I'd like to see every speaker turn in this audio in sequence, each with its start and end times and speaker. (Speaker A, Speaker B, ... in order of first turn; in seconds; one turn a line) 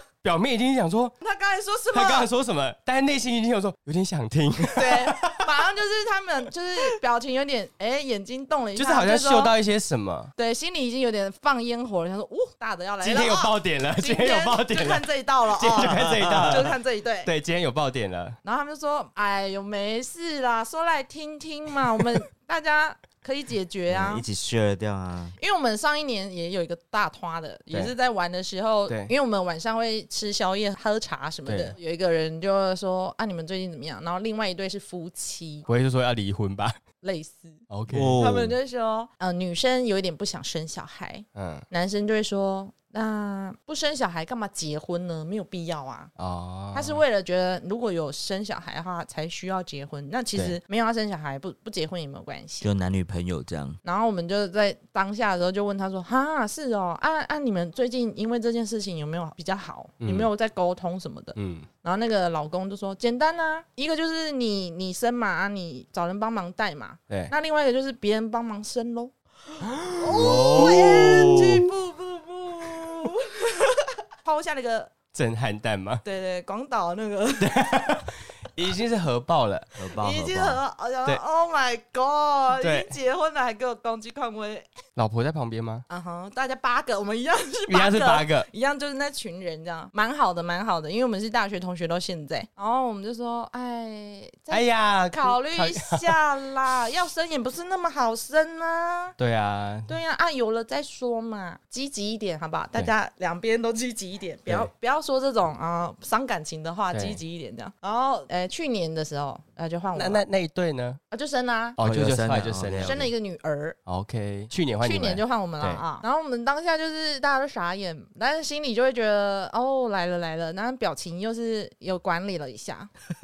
Speaker A: 0.2-1.1
Speaker B: 1.2-2.3
Speaker A: 1.9-5.5
Speaker B: 4.7-9.5
Speaker A: 8.8-10.3
Speaker B: 10.4-17.3
Speaker A: 13.0-18.4
Speaker C: 15.8-16.7
Speaker B: 18.4-24.3
Speaker C: 23.9-25.4
Speaker B: 25.4-35.7
Speaker A: 28.9-29.1
Speaker A: 31.5-31.8
Speaker A: 35.7-36.8
Speaker B: 37.0-37.7
Speaker A: 37.7-38.2
Speaker C: 37.9-38.5
Speaker B: 38.2-46.1
Speaker A: 41.4-41.6
Speaker A: 46.2-47.0
Speaker B: 46.7-52.7
Speaker C: 52.6-53.8
Speaker B: 53.8-74.9
Speaker A: 60.0-60.3
Speaker A: 61.4-61.7
Speaker C: 70.0-71.6
Speaker A: 70.6-71.1
Speaker A: 75.1-76.0
Speaker B: 76.0-78.0
Speaker A: 77.4-79.7
Speaker C: 79.8-80.6
Speaker B: 80.0-84.7
Speaker A: 82.5-82.9
Speaker A: 85.0-85.8
Speaker B: 85.9-99.2
Speaker A: 87.7-88.5
Speaker A: 94.5-96.1
Speaker A: 99.2-100.0
Speaker B: 99.9-110.2
Speaker A: 106.9-107.2
Speaker A: 110.0-111.0
Speaker B: 111.1-111.8
Speaker A: 111.8-113.1
Speaker C: 111.8-113.1
Speaker B: 112.8-113.8
Speaker A: 113.9-115.8
Speaker B: 114.8-122.9